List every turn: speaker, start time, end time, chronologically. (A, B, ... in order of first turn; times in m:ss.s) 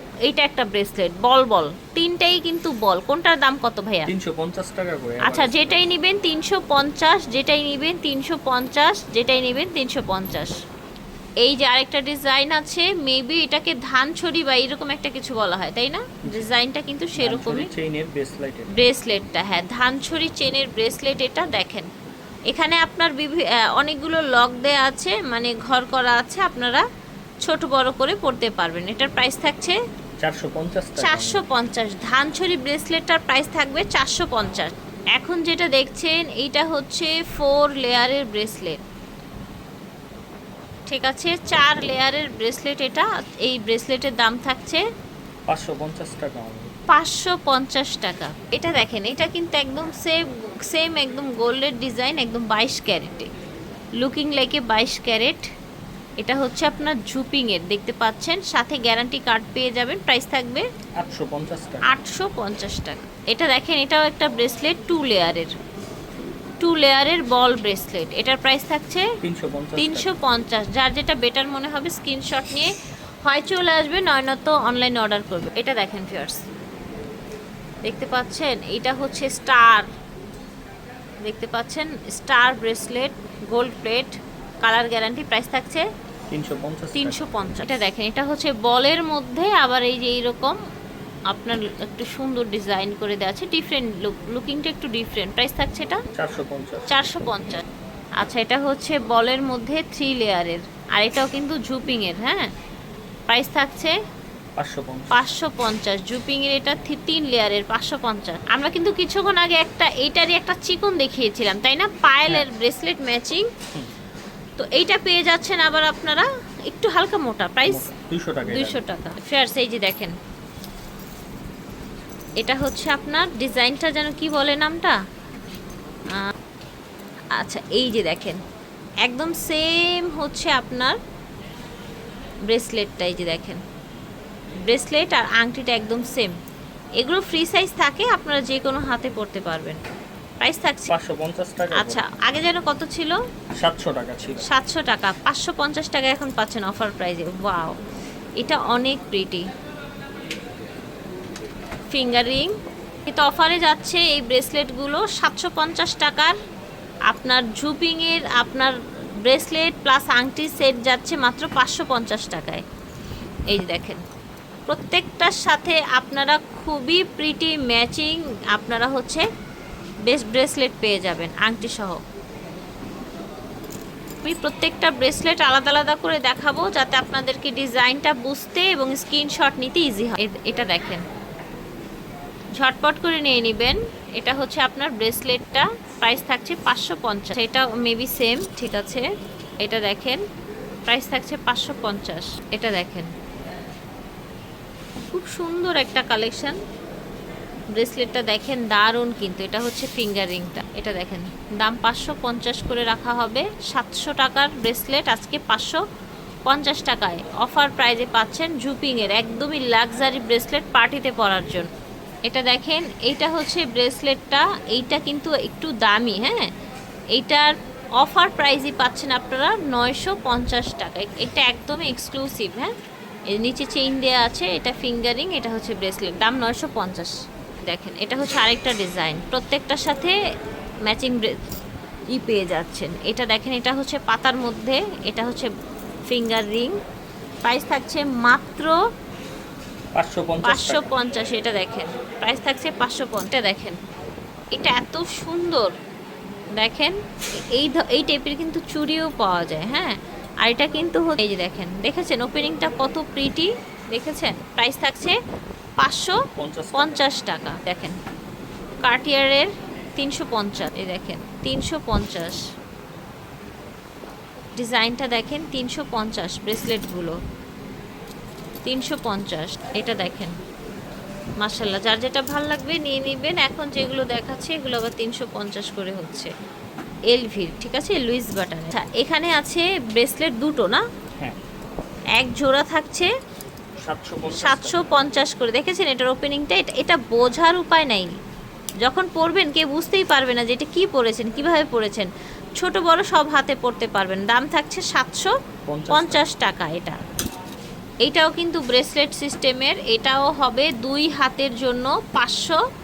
0:00.2-0:04.1 A
0:04.1-0:05.9 B
0:05.2-0:10.6 A
0:11.4-0:17.7 A
0:17.2-0:18.7 B
0:18.7-0:21.9 A
0:22.5-0:26.8 A
0:27.4-0:29.8 A
0:30.2-0:31.4 B
0:31.0-0:38.8 A
0:40.9-0:44.8 A
0:45.5-0:46.7 B
0:46.9-0:53.3 A
0:54.0-0:55.4 A
0:56.2-1:00.7 A
1:01.0-1:02.0 B
1:01.8-1:05.5 A
1:06.6-1:09.1 A
1:09.2-1:10.1 B
1:09.8-1:12.7 A
1:13.2-1:16.4 A
1:17.8-1:19.9 A
1:21.2-1:25.8 A
1:26.3-1:27.4 B
1:26.9-1:30.6 A
1:31.3-1:36.0 A
1:36.1-1:36.9 B
1:36.9-1:37.6 A
1:38.2-1:42.5 A
1:43.3-1:43.9 A
1:44.6-1:45.3 B
1:45.1-1:53.5 A
1:54.6-1:57.9 A
1:57.7-1:58.8 B
1:58.5-2:00.1 A
2:02.4-2:05.0 A
2:07.4-2:08.4 A
2:09.0-2:11.0 A
2:12.5-2:13.6 A
2:14.6-2:16.3 A
2:17.0-2:19.8 A
2:20.4-2:20.9 A
2:20.9-2:22.0 B
2:21.8-2:23.2 A
2:23.5-2:24.5 B
2:24.4-2:27.7 A
2:28.4-2:29.5 A
2:31.9-2:32.5 A
2:33.0-2:36.4 A
2:37.1-2:42.6 A
2:43.5-2:44.0 A
2:44.7-2:49.2 A
2:50.0-2:52.0 A
2:54.2-3:01.0 A
3:02.6-3:09.0 A
3:09.6-3:10.2 A
3:10.8-3:13.1 A
3:15.1-3:16.6 A
3:17.7-3:25.8 A
3:26.4-3:31.7 A
3:32.2-3:36.5 A
3:37.1-3:42.7 A
3:43.3-3:50.2 A
3:50.8-3:51.3 A
3:52.1-3:55.5 A
3:56.1-3:56.8 A
3:57.4-3:58.8 A
3:59.9-4:00.9 B
4:00.4-4:03.8 A
4:04.5-4:05.7 A
4:06.6-4:15.2 A
4:15.8-4:16.2 A
4:16.4-4:17.0 B
4:16.7-4:18.0 A
4:18.8-4:22.4 A
4:24.6-4:27.2 A
4:28.6-4:30.3 A
4:31.4-4:36.3 A
4:37.1-4:40.8 A
4:42.2-4:43.1 A
4:43.8-4:44.9 B
4:44.3-4:48.2 A
4:48.8-4:55.3 A
4:55.7-4:56.2 B
4:55.9-4:57.0 A
4:58.0-5:02.6 A